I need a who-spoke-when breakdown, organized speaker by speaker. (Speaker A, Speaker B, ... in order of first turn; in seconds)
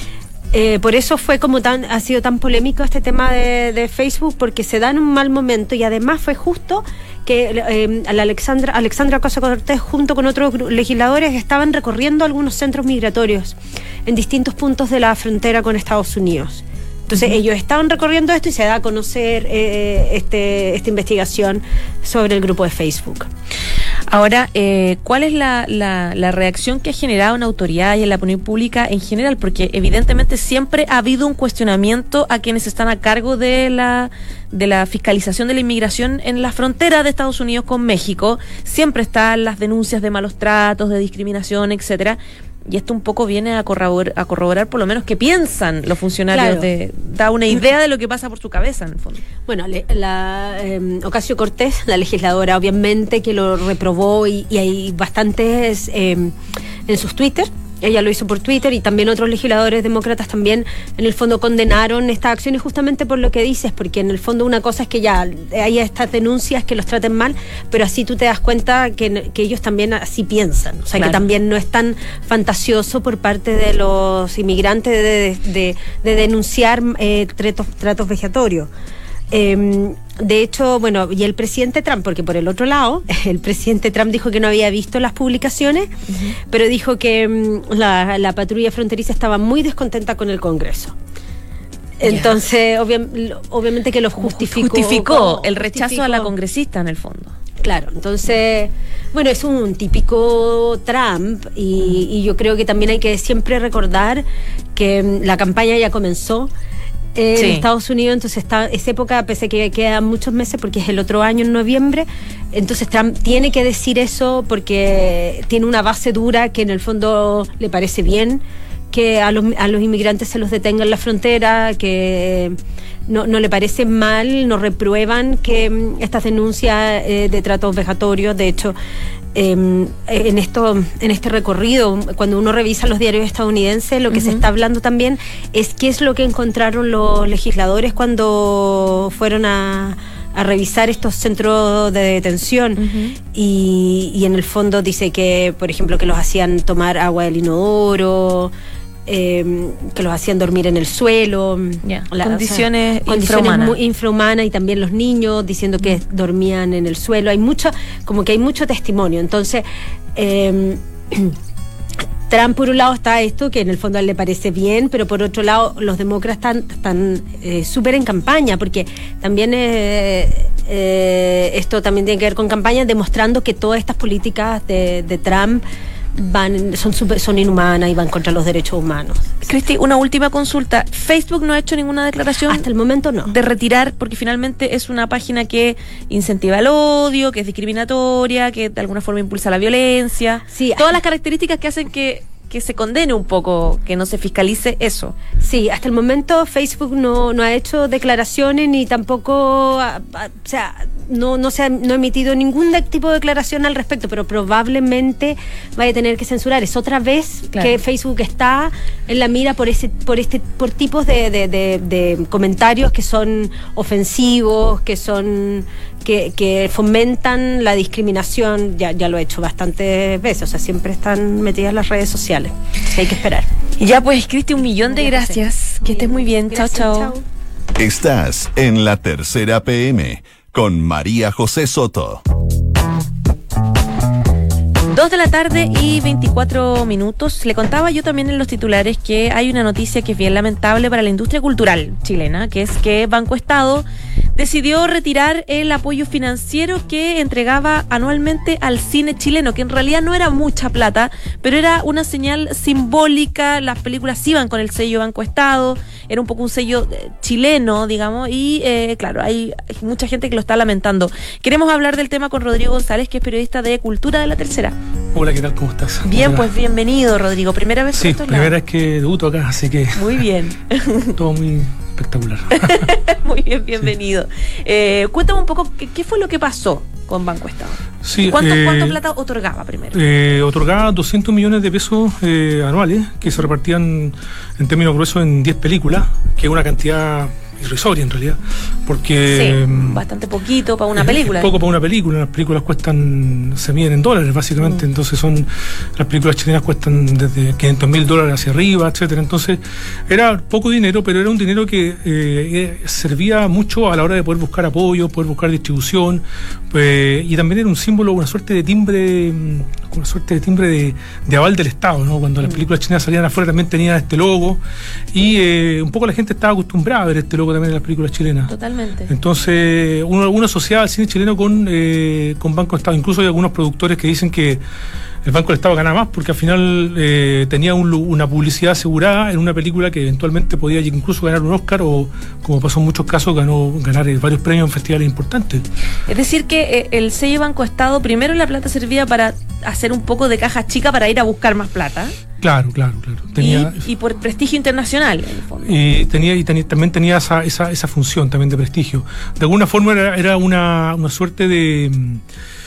Speaker A: 0.5-23.3, 46.3-46.7, 49.5-56.3, 56.9-78.7, 79.3-85.9, 86.5-90.9, 92.0-96.3, 97.6-106.5, 107.1-128.8, 129.3-148.5, 149.1-161.3, 162.3-175.6, 176.1-179.3, 182.5-183.3, 190.5-190.9, 195.4-223.5, 224.8-227.2
Speaker B: 24.1-49.2, 71.0-71.2, 86.1-86.3, 92.0-92.4, 94.2-97.3, 107.3-107.7, 134.1-134.4, 142.8-143.2, 151.8-153.8, 179.4-182.6, 183.3-195.1, 223.8-227.1, 234.9-264.7, 266.0-268.5, 269.9-271.2, 272.5-280.0, 289.3-291.5, 318.5-319.1, 336.1-342.1, 343.4-345.7
Speaker C: 227.8-232.2
Speaker D: 265.1-266.5, 267.9-270.2, 271.1-272.9, 278.0-279.0, 279.9-290.0, 290.9-314.6, 315.1-318.5, 319.1-324.6, 325.2-335.6, 342.4-343.8, 345.6-352.2